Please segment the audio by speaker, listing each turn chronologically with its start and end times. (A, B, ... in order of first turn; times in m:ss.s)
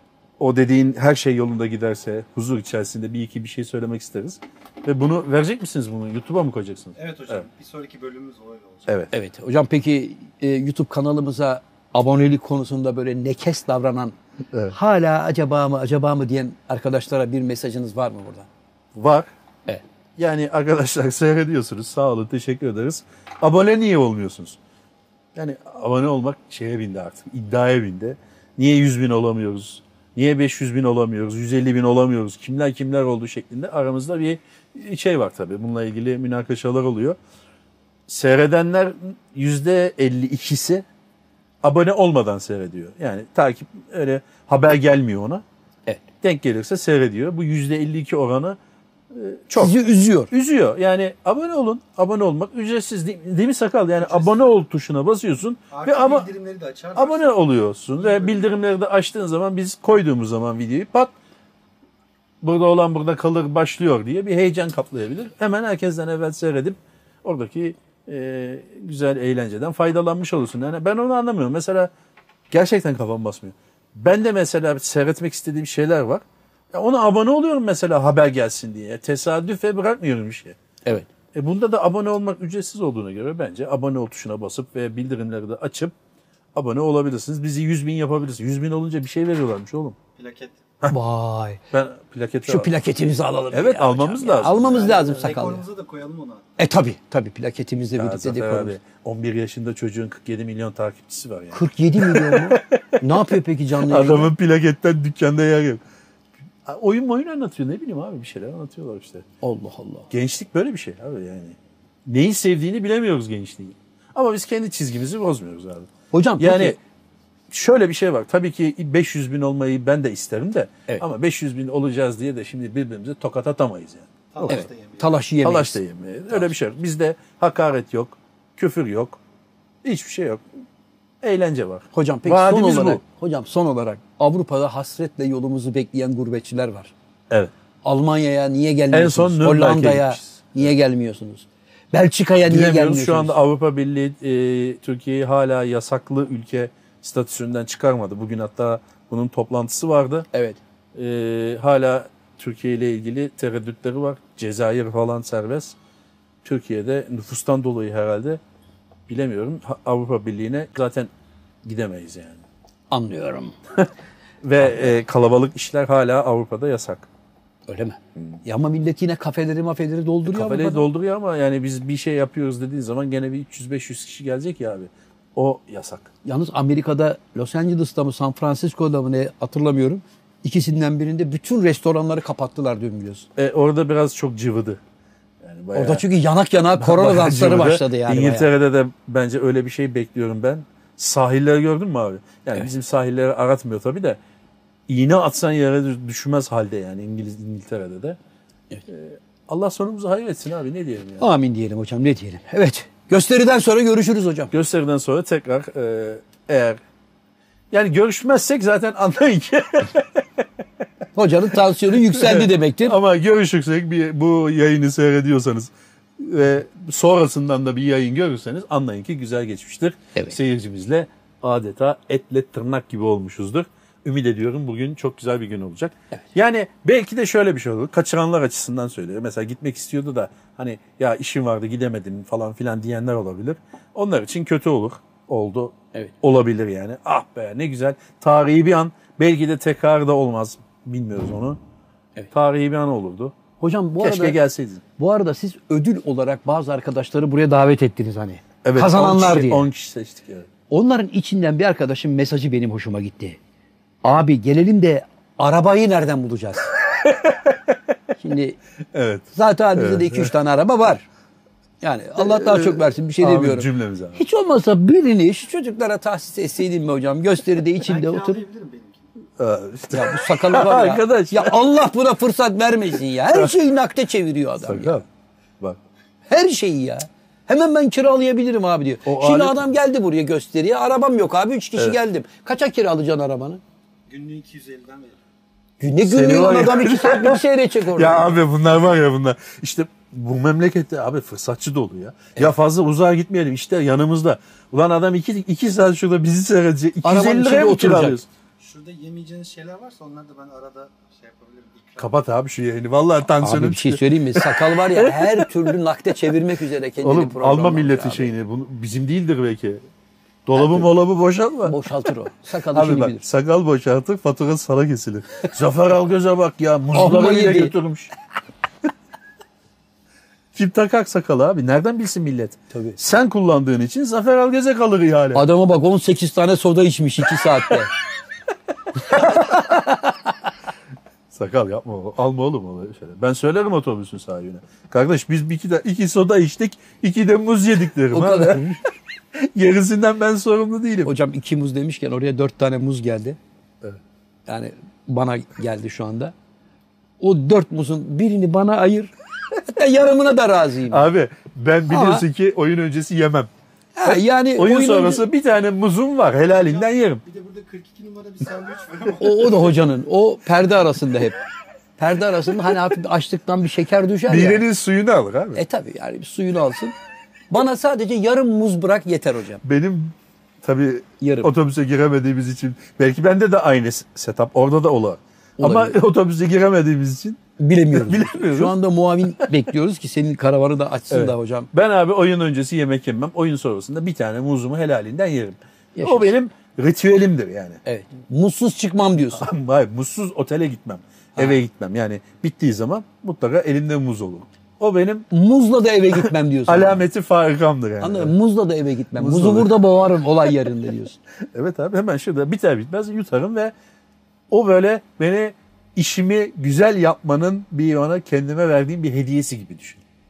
0:00.4-0:07.4 A
0:07.0-0:09.0 B
0:08.9-0:09.1 A
0:09.1-0:14.2 C
0:14.7-0:18.5 C
0:19.0-0:19.3 A
0:20.2-0:24.6 A
0:25.4-0:37.2 A
0:38.1-0:40.8 A
0:41.6-0:45.4 A
0:46.2-0:48.6 A
0:49.1-0:49.8 A
0:49.6-0:50.3 C
0:50.3-0:56.3 A
0:54.0-0:54.5 B
0:55.7-0:57.3 B
0:57.0-1:01.1 A
0:58.0-0:58.4 B
1:02.4-1:11.9 A
1:12.5-1:20.6 A
1:21.3-1:26.0 A
1:26.6-1:30.0 A
1:30.2-1:30.6 B
1:30.9-1:31.6 C
1:31.7-1:32.7 A
1:32.5-1:35.6 C
1:33.5-1:35.2 A
1:34.6-1:36.4 B
1:36.6-1:38.8 C
1:38.0-1:43.2 A
1:41.5-1:44.3 C
1:43.9-1:45.8 A
1:46.7-1:49.2 A
1:49.4-1:50.1 C
1:50.1-1:56.8 A
1:56.1-1:56.8 C
1:57.5-2:04.7 A
2:04.3-2:05.2 B
2:04.5-2:05.8 C
2:05.4-2:09.2 A
2:09.8-2:10.4 A
2:11.2-2:13.0 A
2:11.9-2:16.9 C
2:17.8-2:23.4 C
2:18.9-2:20.6 A
2:22.5-2:30.3 A
2:30.3-2:30.6 C
2:30.9-2:35.8 A
2:36.4-2:38.4 A
2:39.1-2:41.1 A
2:41.6-2:42.4 A
2:42.9-2:43.6 C
2:44.4-2:47.1 A
2:44.6-2:44.9 C
2:47.7-2:50.8 C
2:50.3-2:56.1 A
2:56.2-3:03.3 C
3:03.4-3:04.8 A
3:05.4-3:06.0 A
3:05.7-3:08.5 C
3:06.8-3:14.2 A
3:14.9-3:18.2 A
3:18.9-3:21.3 A
3:21.2-3:24.5 C
3:24.5-3:26.8 A
3:27.7-3:30.4 A
3:31.2-3:33.0 C
3:32.1-4:01.6 A
4:02.3-4:03.3 A
4:03.6-4:04.4 C
4:04.0-4:04.8 A
4:05.0-4:09.6 C
4:08.6-4:10.5 A
4:10.7-4:13.4 C
4:14.0-4:16.7 C
4:17.0-4:17.7 A
4:18.2-4:18.6 C
4:18.9-4:20.3 A
4:19.3-4:21.1 C
4:21.8-4:28.4 C
4:22.2-4:24.2 A
4:27.8-4:29.1 B
4:29.4-4:31.6 A
4:29.9-4:35.0 C
4:33.3-4:33.6 A
4:34.6-4:35.0 A
4:36.3-4:43.6 C
4:39.1-4:39.6 A
4:44.1-4:45.2 B
4:45.8-4:48.3 C
4:46.0-4:47.4 A
4:47.9-4:58.3 A
4:57.0-4:58.2 C
4:58.6-5:02.2 B
5:02.0-5:05.5 A
5:03.4-5:08.3 C
5:07.0-5:09.8 A
5:10.5-5:11.8 A
5:10.6-5:10.9 C
5:11.7-5:13.3 C
5:12.7-5:18.1 A
5:16.9-5:17.7 C
5:20.6-5:25.5 A
5:22.7-5:23.0 C
5:25.4-5:27.9 C
5:29.1-5:29.8 A
5:29.1-5:29.6 C
5:31.3-5:38.6 A
5:38.1-5:38.8 C
5:39.4-5:41.1 A
5:41.0-5:43.4 C
5:44.5-5:46.3 C
5:47.2-5:51.1 C
5:50.9-5:53.5 A
5:51.9-5:52.2 C
5:54.0-5:55.3 C
5:54.0-5:57.2 A
5:56.5-5:59.8 B
5:59.2-6:01.4 C
6:02.0-6:04.6 C
6:04.3-6:05.6 A
6:05.6-6:06.9 C
6:07.5-6:09.6 C
6:09.6-6:17.4 A
6:11.2-6:11.5 C
6:15.6-6:16.0 C
6:17.6-6:21.7 C
6:17.9-6:18.8 A
6:21.1-6:27.8 A
6:26.0-6:26.3 C
6:27.8-6:29.5 C
6:29.3-6:35.3 A
6:35.3-6:37.0 C
6:36.7-6:38.3 A
6:38.0-6:41.2 C
6:39.2-6:39.7 A
6:41.5-6:43.7 A
6:44.5-6:50.0 A